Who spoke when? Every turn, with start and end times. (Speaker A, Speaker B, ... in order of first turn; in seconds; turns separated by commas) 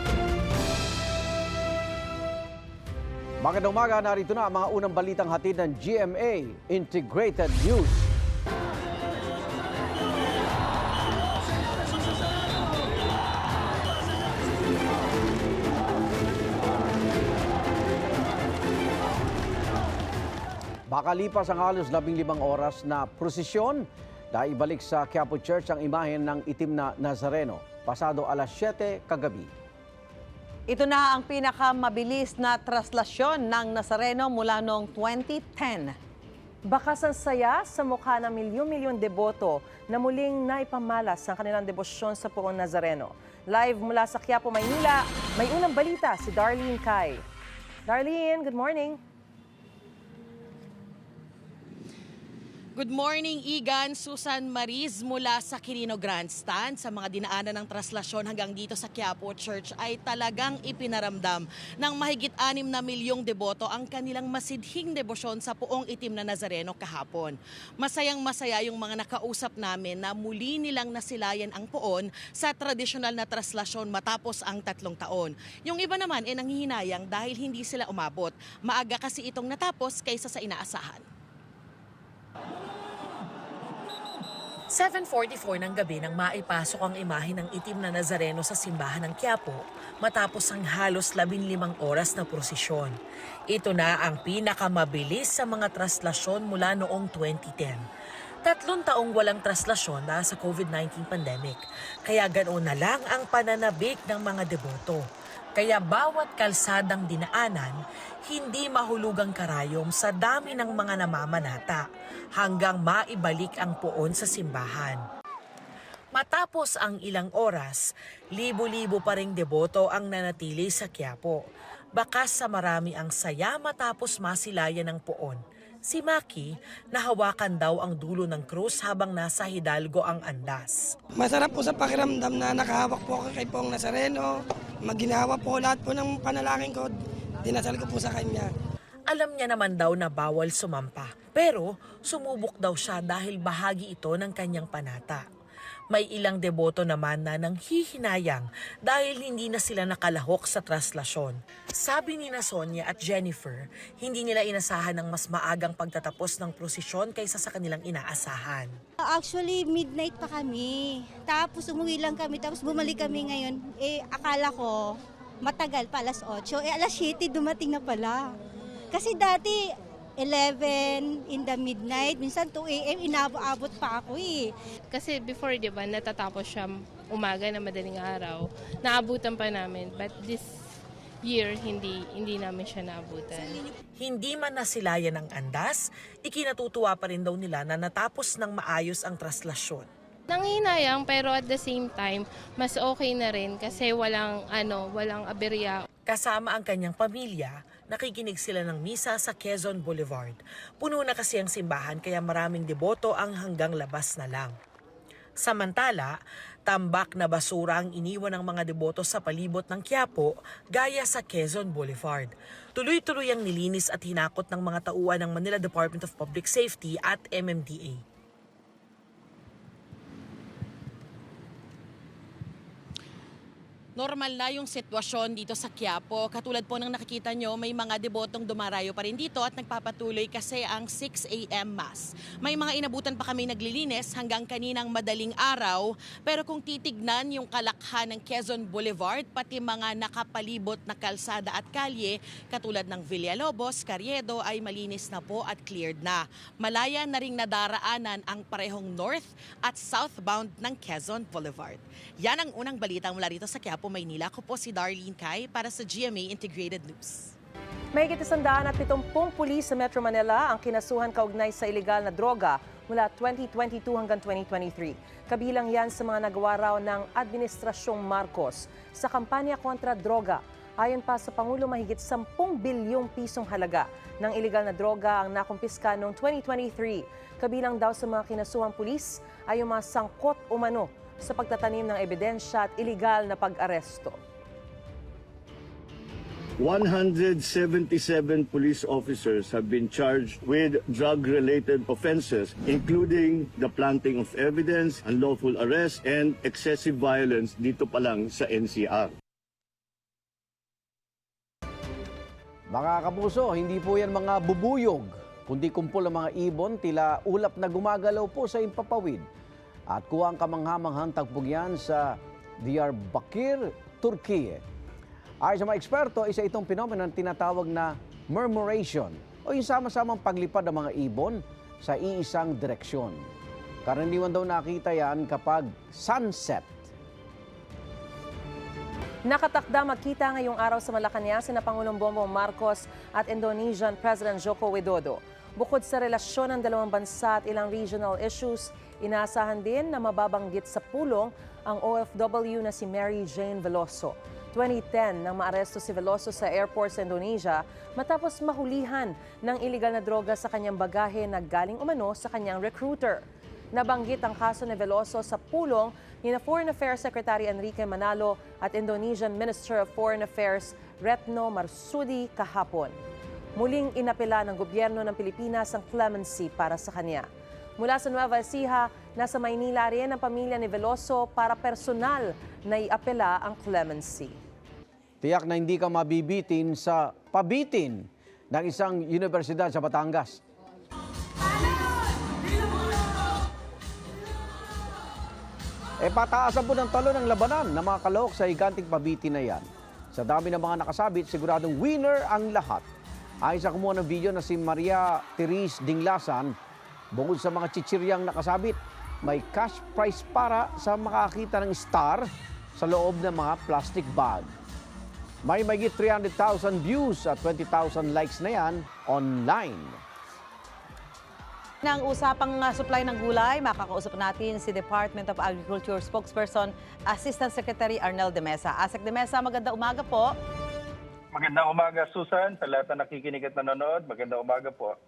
Speaker A: 3.4-8.1, Speaker A: 20.9-29.5, Speaker B: 30.7-35.9, Speaker C: 36.7-47.2, Speaker C: 47.9-49.0, Speaker D: 52.8-81.1, Speaker E: 84.7-92.9, Speaker E: 93.5-97.8, Speaker E: 98.4-115.0, Speaker E: 116.2-130.9, Speaker F: 131.2-136.9, Speaker F: 137.4-138.5, Speaker E: 139.1-145.2, Speaker E: 145.9-158.7, Speaker G: 159.1-164.9, Speaker G: 165.4-168.2, Speaker G: 168.9-169.6, Speaker G: 170.2-174.5, Speaker H: 174.9-180.6, Speaker H: 181.2-183.6, Speaker E: 184.0-189.9, Speaker H: 190.3-195.8, Speaker E: 196.1-204.5, Speaker E: 205.4-218.0, Speaker D: 223.9-257.3, Speaker C: 257.9-284.2, Speaker I: 286.6-299.1, Speaker A: 302.7-309.3, Speaker A: 309.9-314.6, Speaker A: 315.4-323.3, Speaker A: 323.8-326.8, Speaker C: 329.2-353.2, Speaker C: 353.8-362.9, Speaker C: 363.6-367.3, Speaker C: 367.8-374.4, Speaker A: 375.2-380.4, Speaker A: 386.0-392.9, Speaker A: 393.4-396.6, Speaker A: 397.1-404.5, Speaker A: 405.4-410.0, Speaker B: 411.8-420.3, Speaker J: 421.3-424.9